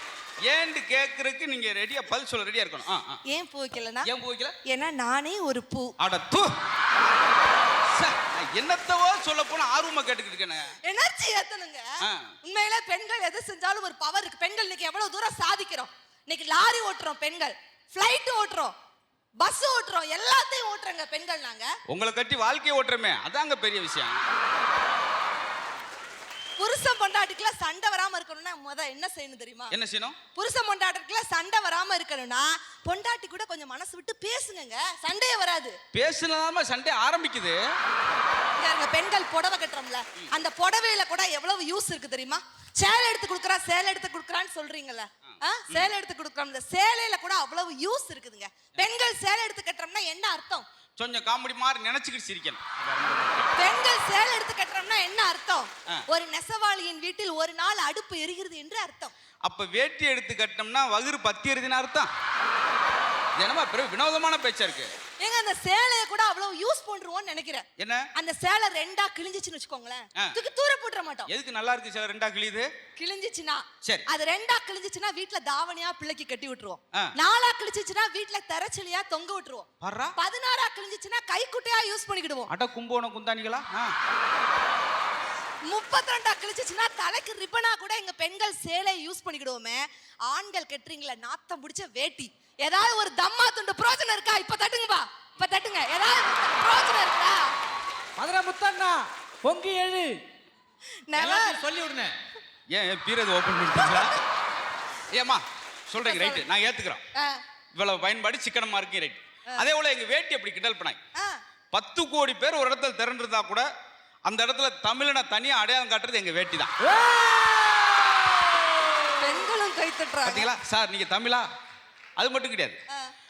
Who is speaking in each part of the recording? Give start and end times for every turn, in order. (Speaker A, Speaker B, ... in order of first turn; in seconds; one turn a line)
Speaker A: 0.4-3.2
Speaker B: 3.3-4.1
Speaker A: 4.0-4.5
Speaker B: 4.6-5.9
Speaker A: 6.0-7.1
Speaker A: 7.9-10.7
Speaker B: 10.8-11.9
Speaker A: 12.0-12.3
Speaker B: 12.4-18.7
Speaker B: 19.4-21.7
Speaker A: 21.9-24.2
Speaker B: 26.6-29.7
Speaker A: 29.7-30.2
Speaker B: 30.3-35.8
Speaker A: 35.9-37.6
Speaker B: 38.5-50.6
Speaker A: 45.3-45.9
Speaker A: 51.0-53.5
Speaker B: 53.5-59.1
Speaker A: 59.4-62.1
Speaker A: 63.4-64.9
Speaker B: 65.2-71.3
Speaker A: 67.8-68.0
Speaker A: 71.3-72.7
Speaker B: 73.0-82.5
Speaker A: 79.8-80.1
Speaker A: 82.5-83.9
Speaker B: 85.7-97.5
Speaker C: 98.2-100.2
Speaker B: 101.1-101.6
Speaker C: 101.2-102.1
Speaker A: 102.7-104.2
Speaker A: 105.1-107.0
Speaker B: 106.0-106.4
Speaker B: 107.1-107.4
Speaker A: 107.7-111.0
Speaker A: 111.7-113.7
Speaker A: 114.2-116.7
Speaker C: 116.8-119.2
Speaker B: 119.2-120.5
Speaker A: 120.2-121.5
Speaker A: 122.2-122.8